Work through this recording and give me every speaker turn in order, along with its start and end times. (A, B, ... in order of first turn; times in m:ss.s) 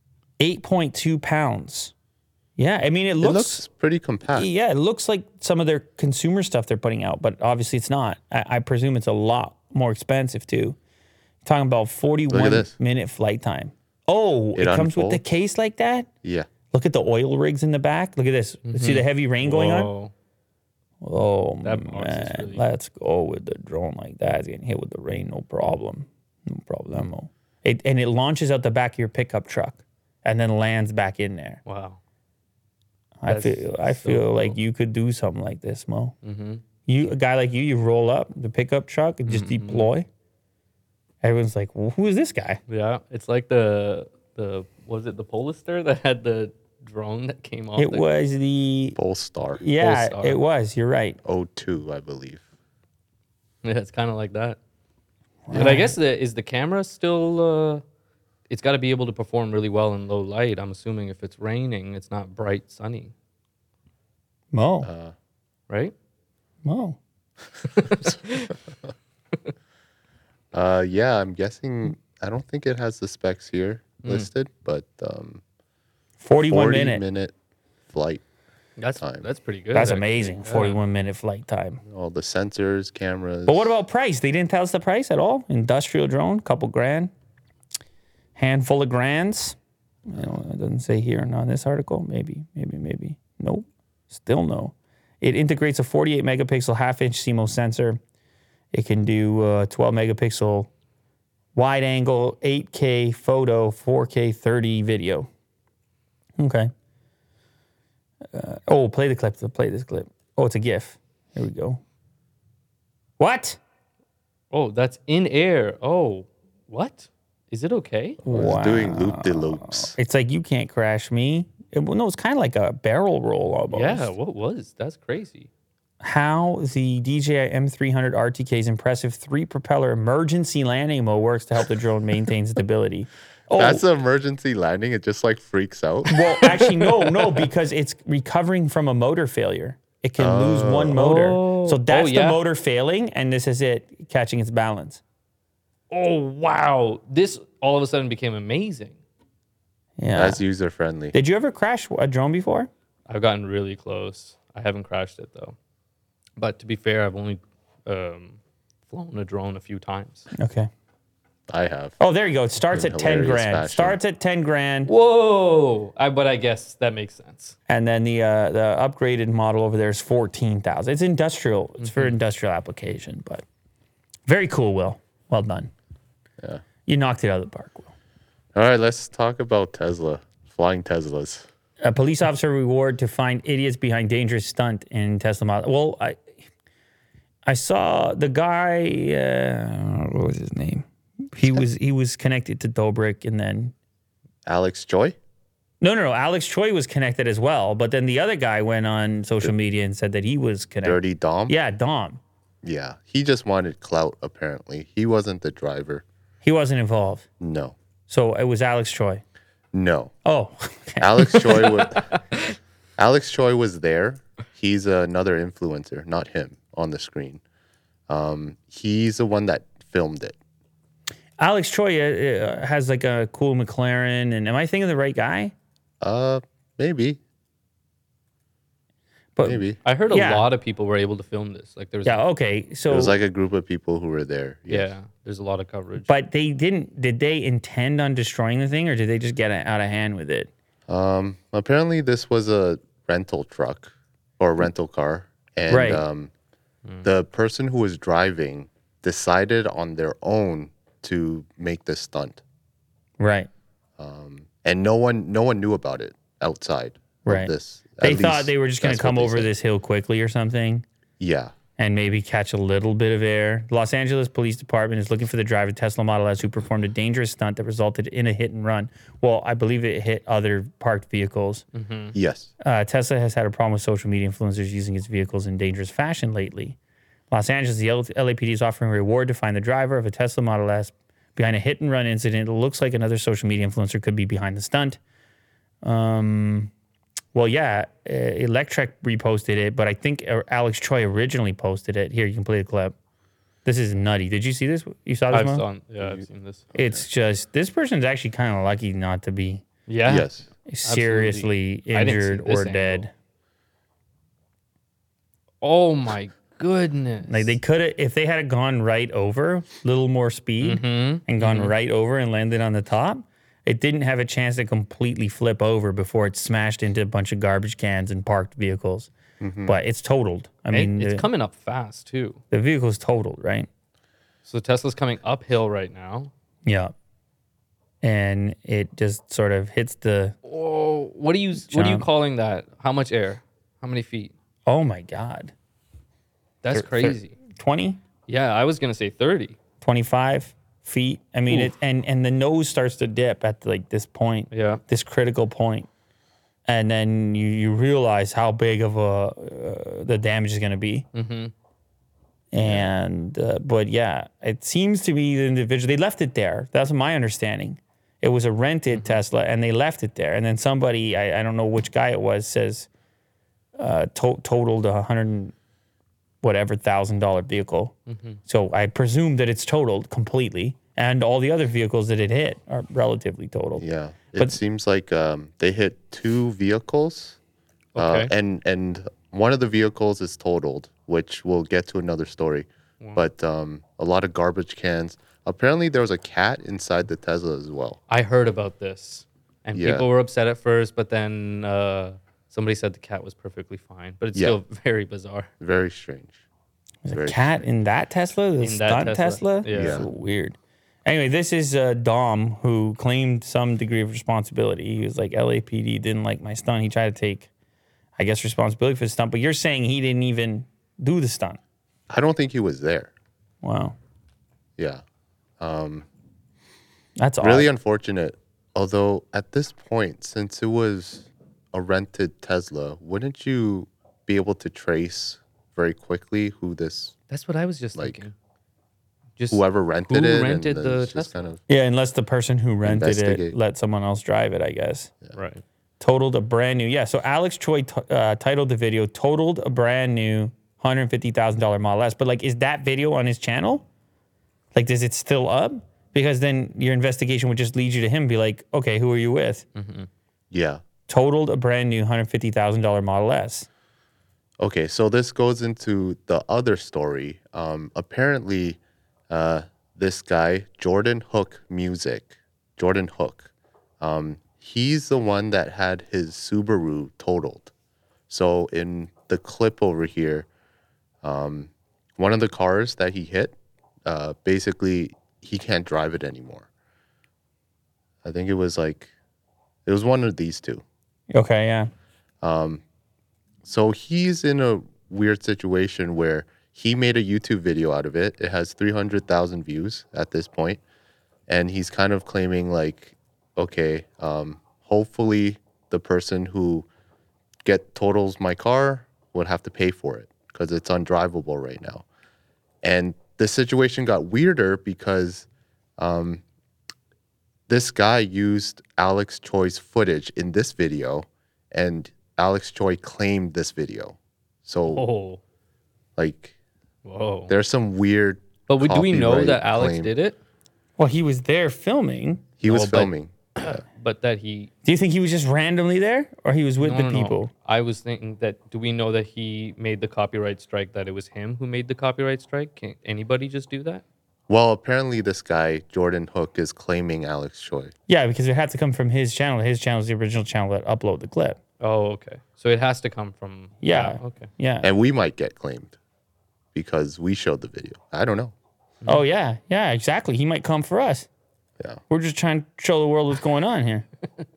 0:00.4-0:01.9 A
0:02.6-0:03.6 A
0:03.2-0:04.5 B
0:04.3-0:10.8 A
0:11.4-0:16.1 A
0:12.3-0:12.7 B
0:14.6-0:15.2 B
0:16.2-0:16.5 B
0:16.7-0:19.9 A
0:18.6-0:20.1 C
0:21.0-0:31.6 A
0:21.6-0:22.6 C
0:31.6-0:32.0 C
0:33.2-0:36.1 A
0:33.3-0:34.6 C
0:36.2-0:36.6 C
0:36.9-0:40.1 A
0:39.3-0:39.9 C
0:41.2-0:42.6 A
0:42.7-0:48.1 C
0:47.8-0:49.0 A
0:49.0-0:49.6 B
0:49.6-0:51.2 A
0:49.8-0:50.4 C
0:51.2-0:52.4 B
0:53.6-0:54.6 C
0:55.5-0:55.9 A
0:55.5-0:57.8 C
0:58.5-1:03.1 C
1:04.5-1:04.9 A
1:04.8-1:05.1 B
1:05.7-1:05.9 C
1:06.6-1:07.0 A
1:07.7-1:08.5 C
1:10.5-1:15.4 B
1:16.2-1:17.0 A
1:16.5-1:17.3 B
1:17.9-1:18.2 B
1:18.8-1:20.8 C
1:19.0-1:19.2 B
1:19.7-1:21.8 A
1:21.8-1:23.8 B
1:23.5-1:27.1 A
1:28.3-1:38.0 A
1:38.7-1:40.7 A
1:41.5-1:45.3 A
1:46.4-1:46.7 A
1:48.3-1:51.8 A
1:53.2-1:53.6 A
1:54.5-1:58.2 C
1:58.2-1:59.9 B
1:58.2-2:04.1 A
2:03.7-2:05.5 C
2:06.0-2:13.8 A
2:13.5-2:16.1 B
2:16.1-2:25.0 A
2:16.4-2:17.4 C
2:20.2-2:21.0 B
2:20.9-2:22.4 C
2:25.9-2:29.0 C
2:30.0-2:30.4 A
2:30.1-2:31.1 B
2:31.1-2:32.7 A
2:33.1-2:35.5 C
2:36.4-2:38.4 C
2:38.9-2:40.3 C
2:40.3-2:40.7 A
2:41.5-2:42.0 B
2:42.0-2:44.9 A
2:42.7-2:44.0 B
2:44.9-2:47.6 C
2:47.7-2:53.4 A
2:51.8-2:52.2 C
2:54.3-2:55.7 A
2:56.8-2:57.9 A
2:58.5-3:01.5 B
3:01.8-3:06.2 A
3:07.4-3:13.7 A
3:14.4-3:15.2 B
3:15.8-3:22.2 A
3:20.8-3:21.5 B
3:22.6-3:26.0 B
3:26.4-3:27.2 A
3:27.4-3:27.8 B
3:28.1-3:29.2 A
3:29.7-3:30.1 B
3:30.2-3:31.7 A
3:31.0-3:32.2 B
3:32.1-3:32.4 C
3:33.0-3:37.4 B
3:38.1-3:40.4 B
3:41.4-3:45.5 A
3:46.0-3:47.2 B
3:49.4-3:50.5 A
3:49.4-3:49.8 B
3:49.8-3:52.2 C
3:52.0-3:53.2 A
3:52.9-3:54.9 B
3:54.7-3:56.1 C
3:56.1-4:00.5 A
4:00.9-4:06.3 B
4:05.7-4:06.0 A
4:07.0-4:12.4 B
4:13.2-4:13.5 A
4:14.0-4:19.5 B
4:17.2-4:20.8 A
4:21.2-4:21.5 B
4:21.8-4:31.6 A
4:31.7-4:32.2 C
4:32.1-4:32.5 B
4:32.6-4:36.8 A
4:37.3-4:45.0 A
4:45.8-4:46.7 A
4:47.3-4:52.9 A
4:53.6-4:55.6 A
4:55.3-4:56.7 C
4:56.0-4:57.0 B
4:56.7-4:59.6 A
4:59.9-5:03.0 C
5:00.0-5:00.4 B
5:00.6-5:03.1 A
5:05.6-5:07.6 C
5:07.3-5:19.1 A
5:10.6-5:11.7 C
5:19.4-5:19.8 B
5:19.6-5:21.3 A
5:20.7-5:22.4 C
5:22.5-5:23.7 A
5:24.4-5:26.3 C
5:26.6-5:26.9 A
5:28.0-5:30.4 A
5:30.4-5:34.3 C
5:31.6-5:32.0 A
5:34.7-5:35.5 A
5:36.6-5:37.3 C
5:36.7-5:38.0 A
5:38.3-5:39.6 C
5:39.8-5:45.9 A
5:41.5-5:41.7 C
5:44.5-5:44.8 C
5:46.6-5:51.0 A
5:51.1-5:51.5 C
5:52.5-6:02.9 A
5:52.6-5:52.9 B
5:58.9-5:59.2 C
6:03.8-6:05.5 A
6:06.4-6:07.9 A
6:08.1-6:08.4 C
6:08.5-6:13.8 A
6:13.8-6:17.4 B
6:17.9-6:18.3 C
6:18.0-6:28.0 B
6:28.1-6:35.5 C
6:29.7-6:30.0 B
6:34.3-6:34.6 B
6:35.6-6:36.4 B
6:37.0-6:47.5 A
6:37.1-6:37.6 B
6:38.6-6:40.0 C
6:39.7-6:40.1 B
6:48.2-6:51.6 A
6:52.1-6:53.1 B
6:53.6-6:54.0 A
6:54.8-6:55.0 B
6:55.6-6:56.1 B
6:57.2-6:57.7 A
6:57.4-7:07.1 B
7:07.3-7:08.3 C
7:07.9-7:08.2 B
7:09.4-7:11.4 C
7:09.5-7:11.6 B
7:11.7-7:15.1 A
7:12.8-7:13.6 B
7:15.3-7:15.6 C
7:16.0-7:23.8 A
7:24.7-7:29.6 A
7:29.7-7:30.1 C
7:30.5-7:30.8 B
7:31.1-7:33.7 A
7:34.6-7:47.7 B
7:48.3-7:50.5 B
7:51.2-7:56.7 B
7:58.2-7:59.1 B
7:59.8-8:00.8 B
8:01.3-8:01.9 A
8:02.4-8:02.8 B
8:03.6-8:10.8 B
8:11.5-8:16.9 B
8:17.6-8:22.0 B
8:22.8-8:25.5 B
8:26.0-8:26.4 B
8:27.7-8:35.0 B
8:34.9-8:35.4 C
8:36.2-8:36.5 B
8:37.0-8:37.5 C
8:37.5-8:40.1 B
8:38.7-8:40.4 C
8:41.0-8:42.5 A
8:42.6-8:43.8 B
8:42.6-8:44.7 C
8:44.8-8:47.5 A
8:46.8-8:54.0 C
8:54.5-8:57.9 B
8:58.1-9:01.6 A
9:01.8-9:04.5 C
9:03.8-9:04.9 A
9:04.8-9:06.0 B
9:06.7-9:08.5 B
9:09.0-9:11.3 A
9:12.1-9:14.0 A